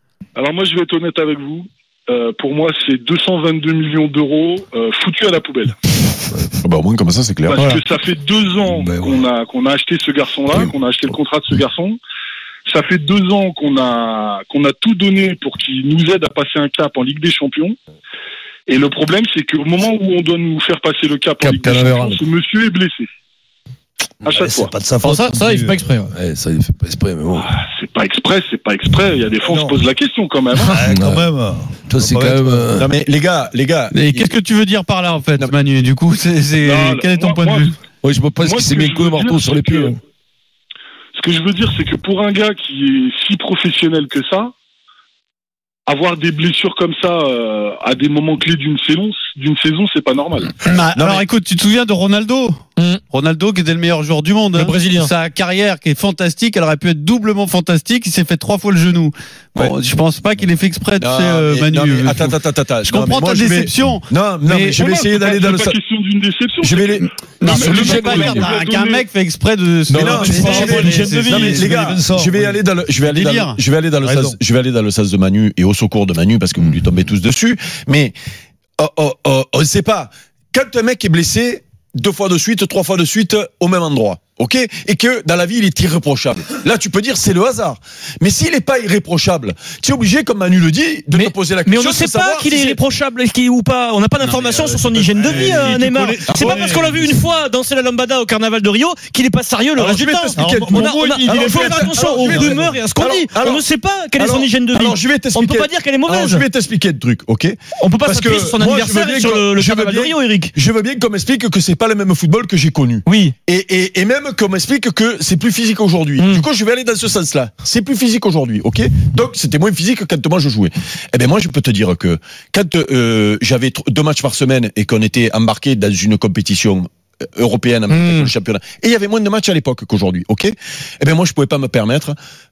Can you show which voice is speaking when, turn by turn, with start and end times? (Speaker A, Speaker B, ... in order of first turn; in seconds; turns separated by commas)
Speaker A: 0.4-5.7, Speaker B: 6.6-7.8, Speaker A: 7.5-12.0, Speaker A: 12.7-17.8, Speaker A: 18.7-23.1, Speaker C: 21.4-22.2, Speaker A: 24.2-24.7, Speaker D: 24.3-25.8, Speaker E: 25.0-26.2, Speaker C: 26.1-27.5, Speaker A: 27.4-30.8, Speaker D: 29.5-29.8, Speaker D: 30.6-32.8, Speaker C: 30.9-31.2, Speaker C: 31.9-32.9, Speaker B: 32.8-34.4, Speaker F: 33.9-37.8, Speaker A: 36.6-37.7, Speaker C: 38.0-40.0, Speaker A: 38.4-40.0, Speaker A: 41.2-44.5, Speaker A: 45.9-50.5, Speaker F: 50.6-64.9, Speaker B: 50.9-51.2, Speaker E: 52.8-53.0, Speaker E: 54.5-55.1, Speaker B: 61.0-65.8, Speaker A: 64.8-69.1, Speaker B: 66.6-68.5, Speaker F: 67.4-71.8, Speaker B: 69.9-78.1, Speaker D: 70.0-72.5, Speaker F: 73.0-73.6, Speaker D: 74.0-74.4, Speaker B: 78.8-92.8, Speaker E: 91.1-106.5, Speaker D: 94.2-97.2, Speaker B: 95.3-95.8, Speaker B: 96.3-96.9, Speaker B: 99.8-103.6, Speaker D: 100.4-102.8, Speaker B: 104.2-132.2, Speaker E: 107.8-110.5, Speaker E: 113.1-113.3, Speaker E: 116.2-116.5, Speaker E: 127.9-128.3